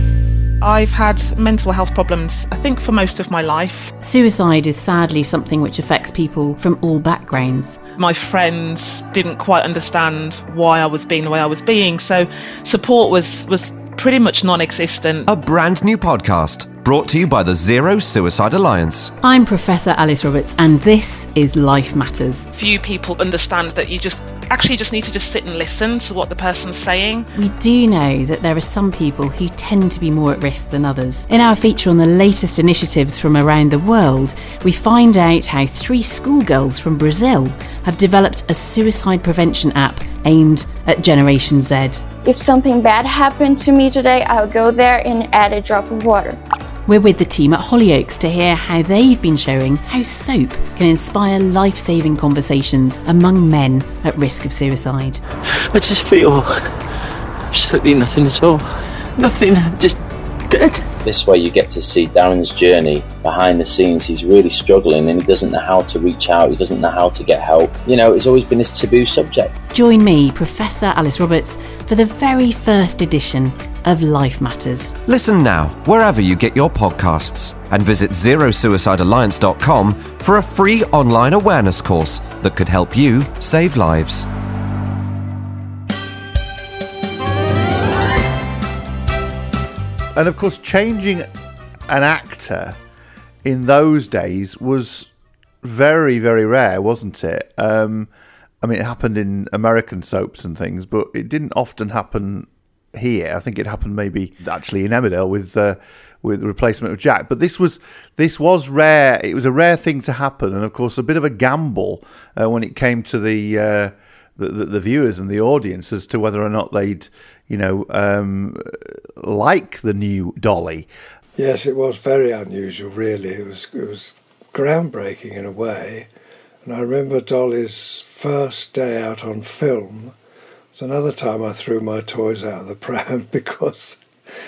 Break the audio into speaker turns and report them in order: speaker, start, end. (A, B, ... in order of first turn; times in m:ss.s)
0:00.6-0:03.9 A
0:04.0-0:07.8 B
0:08.0-0:15.3 A
0:15.2-0:19.1 C
0:19.2-0:22.5 B
0:22.5-0:27.3 A
0:27.3-0:42.1 B
0:42.2-0:46.4 D
0:46.9-0:55.2 B
0:55.5-0:56.9 E
0:57.5-1:00.0 E
1:00.5-1:00.9 E
1:01.0-1:09.6 F
1:09.7-1:15.0 B
1:15.0-1:24.3 C
1:30.1-1:31.3 G
1:31.9-1:32.8 G
1:33.4-1:35.1 G
1:35.6-1:38.1 G
1:38.6-2:00.9 G
2:01.4-2:06.1 H
2:06.6-2:10.1 H
2:10.7-2:14.0 H